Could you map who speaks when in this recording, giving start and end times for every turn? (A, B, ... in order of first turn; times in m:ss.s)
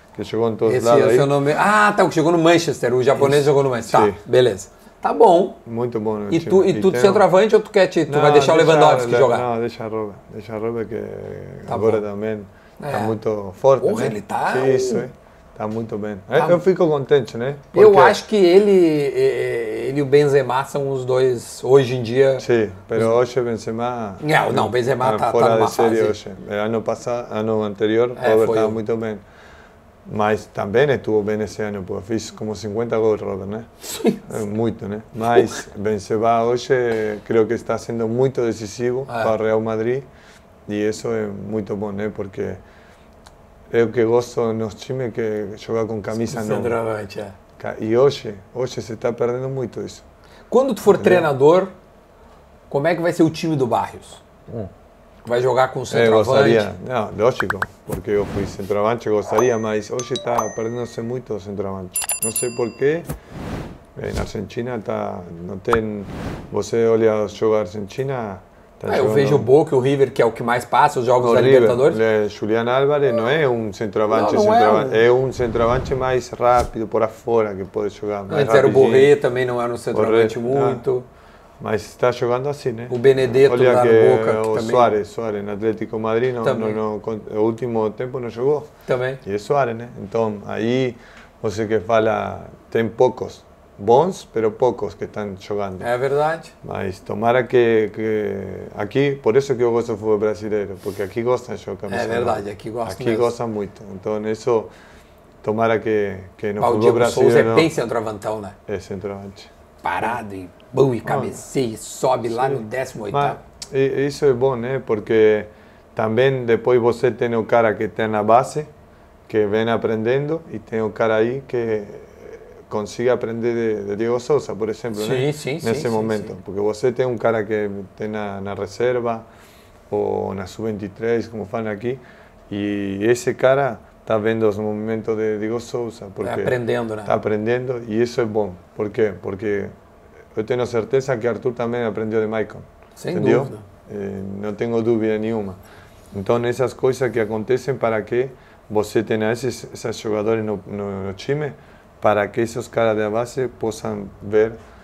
0:00.1-0:01.3 A
0:00.7-0:05.6 B
0:03.2-0:04.2 A
0:05.6-0:07.3 A
0:06.3-0:09.5 B
0:08.1-0:18.2 A
0:11.7-0:12.0 B
0:12.8-0:13.2 B
0:13.8-0:15.0 B
0:16.4-0:16.6 B
0:17.7-0:22.4 B
0:22.4-0:29.2 A
0:24.2-0:26.2 B
0:28.2-0:28.8 B
0:30.1-0:33.7 A
0:33.8-0:34.3 B
0:34.2-0:40.1 A
0:39.1-0:39.3 B
0:40.7-0:42.6 A
0:43.7-0:46.8 A
0:46.2-0:47.4 B
0:47.6-0:50.0 A
0:50.5-0:51.7 B
0:50.8-0:51.3 A
0:52.7-0:54.2 B
0:55.2-0:56.7 B
0:55.9-1:03.1 A
1:04.0-1:09.5 A
1:08.9-1:12.0 B
1:11.2-1:19.2 A
1:14.1-1:15.0 B
1:18.3-1:21.1 B
1:19.9-1:20.8 A
1:21.6-1:28.7 A
1:22.9-1:24.9 B
1:26.4-1:26.8 B
1:28.9-1:29.2 B
1:29.2-1:35.9 A
1:35.8-1:36.5 B
1:36.6-1:44.7 A
1:41.9-1:43.3 B
1:45.4-1:47.8 A
1:46.6-1:48.6 B
1:48.7-1:49.5 A
1:49.8-1:53.4 B
1:51.0-1:51.4 A
1:52.2-1:58.7 A
1:59.3-2:09.3 A
2:04.9-2:06.3 B
2:09.9-2:19.8 A
2:16.2-2:17.1 B
2:20.3-2:25.6 A
2:23.0-2:23.6 B
2:26.1-2:34.6 A